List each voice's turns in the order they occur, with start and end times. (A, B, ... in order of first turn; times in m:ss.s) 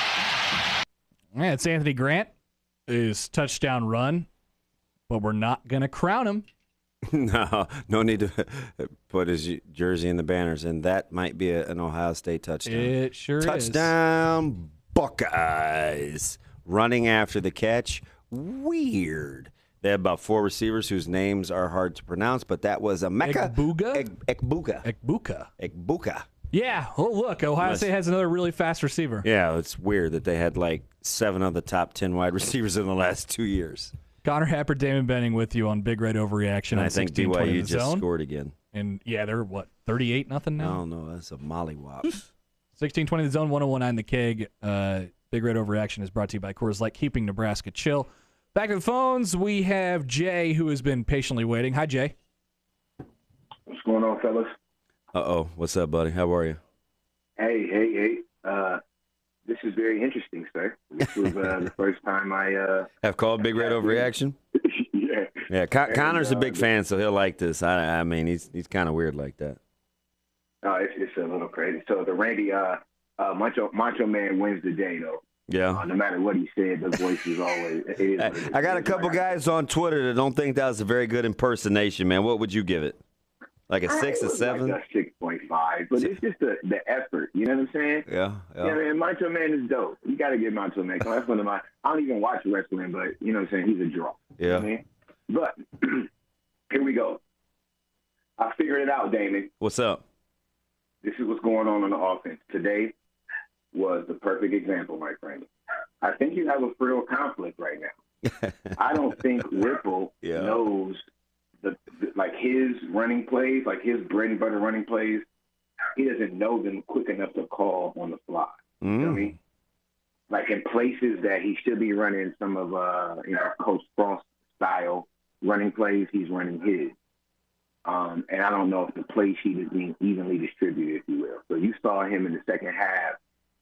0:01.3-0:02.3 A
0:02.9-0:04.3 A
0:05.1-0:06.4 A
0:07.1-0:24.9 B
0:12.6-0:13.9 A
0:23.2-0:24.1 A
0:24.8-0:25.5 A
0:25.6-0:26.2 B
0:26.5-0:29.3 A
0:27.6-0:27.9 B
0:29.2-0:33.9 B
0:34.2-0:38.0 A
0:36.7-0:38.5 B
0:38.7-0:40.8 A
0:40.6-0:42.2 B
0:42.0-0:52.1 A
0:53.7-0:54.5 C
0:55.1-0:56.6 B
0:57.4-0:58.8 C
0:59.4-1:02.9 C
1:03.0-1:04.4 B
1:03.5-1:06.6 C
1:05.5-1:09.6 B
1:10.6-1:19.2 C
1:15.5-1:15.8 B
1:18.2-1:23.0 B
1:23.7-1:24.8 B
1:23.9-1:28.0 C
1:28.1-1:28.8 B
1:28.6-1:36.1 C
1:34.4-1:34.7 B
1:36.7-1:37.2 C
1:38.4-1:39.5 C
1:39.6-1:40.0 B
1:41.0-1:42.9 C
1:43.7-1:45.5 C
1:46.0-1:47.9 C
1:48.2-1:48.7 B
1:48.7-1:51.0 C
1:50.2-1:50.6 B
1:51.6-1:55.2 C
1:55.9-1:59.4 C
1:58.8-1:59.3 B
2:00.3-2:06.9 C
2:07.8-2:13.2 C